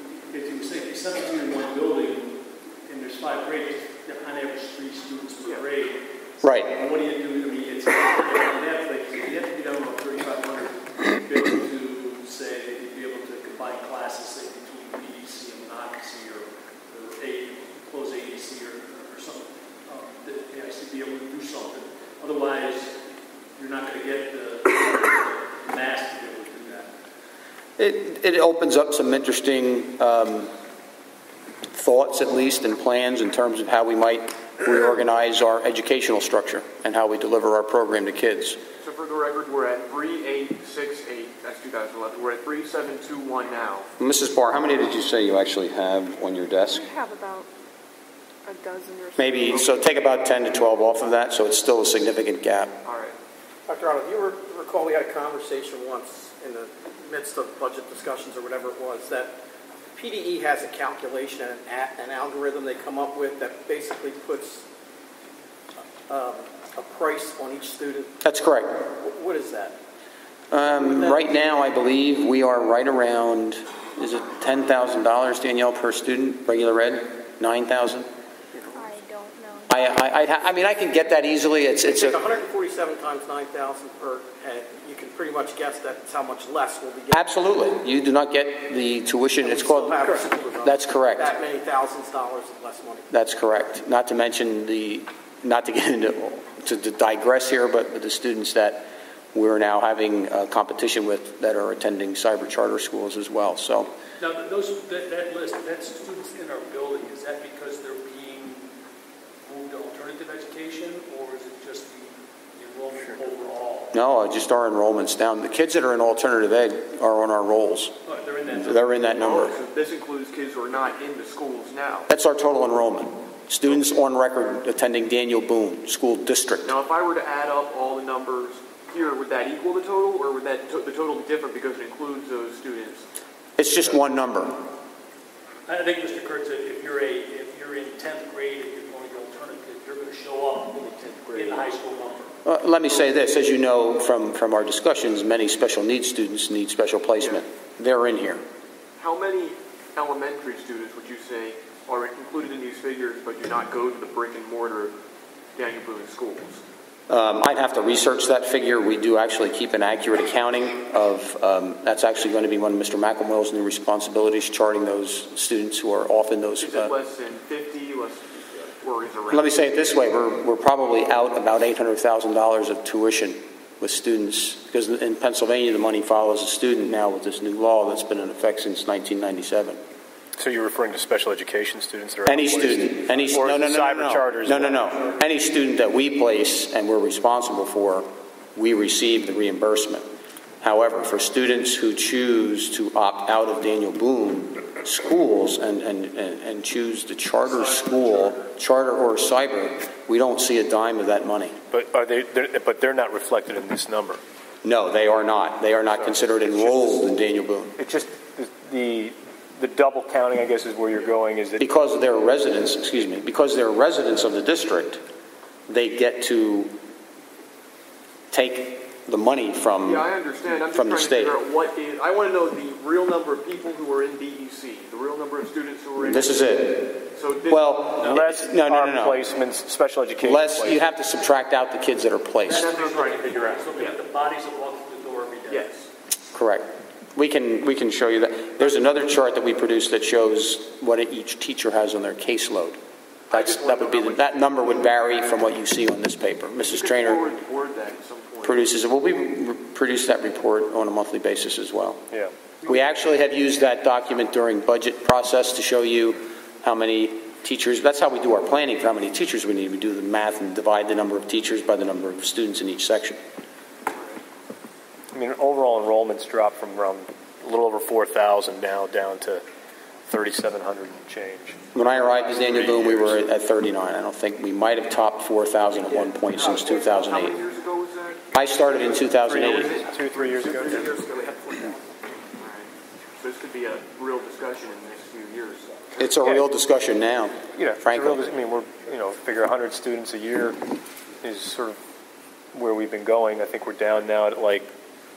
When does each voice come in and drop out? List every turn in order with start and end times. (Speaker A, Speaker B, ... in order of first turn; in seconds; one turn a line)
Speaker A: 0.3-6.0
Speaker B: 6.4-6.7
Speaker A: 6.5-23.0
Speaker A: 23.6-26.9
Speaker B: 27.8-30.5
Speaker B: 31.7-38.6
Speaker C: 38.8-43.9
Speaker B: 44.0-46.9
Speaker D: 46.7-47.5
Speaker D: 48.5-50.1
Speaker B: 49.2-52.7
Speaker C: 49.5-49.9
Speaker C: 52.8-53.1
Speaker E: 53.7-59.4
Speaker E: 60.0-64.6
Speaker E: 66.1-68.2
Speaker B: 68.2-68.8
Speaker E: 68.9-69.8
Speaker B: 70.5-78.1
Speaker E: 70.6-71.3
Speaker D: 78.7-80.5
Speaker B: 79.7-82.2
Speaker E: 81.8-87.3
Speaker B: 87.1-90.0
Speaker E: 89.4-93.1
Speaker B: 90.6-91.3
Speaker B: 93.1-103.9
Speaker A: 104.2-108.7
Speaker A: 109.4-113.9
Speaker B: 113.9-117.9
Speaker A: 118.1-119.0
Speaker B: 118.5-119.6
Speaker C: 119.2-122.1
Speaker B: 122.1-126.7
Speaker C: 126.6-133.1
Speaker B: 133.6-134.6
Speaker A: 135.7-142.3
Speaker C: 141.2-141.6
Speaker B: 142.4-148.4
Speaker C: 149.0-154.9
Speaker C: 155.6-156.6
Speaker B: 157.1-166.9
Speaker C: 166.6-169.5
Speaker B: 169.3-179.8
Speaker F: 180.4-184.9
Speaker B: 182.2-190.0
Speaker B: 190.6-201.5
Speaker F: 201.7-204.2
Speaker B: 204.6-207.7
Speaker F: 205.9-207.0
Speaker F: 207.8-211.6
Speaker B: 211.6-215.0
Speaker B: 215.7-216.7
Speaker B: 218.3-220.1
Speaker C: 219.8-228.2
Speaker B: 220.6-221.4
Speaker B: 226.0-229.2
Speaker F: 228.0-230.8
Speaker B: 230.2-232.7
Speaker A: 232.4-235.7
Speaker C: 232.5-234.0
Speaker C: 235.5-235.9
Speaker B: 236.3-242.8
Speaker C: 243.3-244.6
Speaker B: 243.3-247.2
Speaker C: 246.6-248.6
Speaker B: 248.4-252.0
Speaker B: 252.6-263.2
Speaker F: 265.1-269.4
Speaker F: 270.1-273.1
Speaker B: 271.7-277.4
Speaker E: 276.1-276.5
Speaker C: 276.3-278.2
Speaker B: 278.3-279.8
Speaker F: 279.2-280.9
Speaker C: 279.4-281.5
Speaker E: 280.6-281.8
Speaker C: 282.4-286.1
Speaker B: 286.0-288.3
Speaker F: 287.5-290.6
Speaker F: 291.2-291.8
Speaker F: 292.5-294.7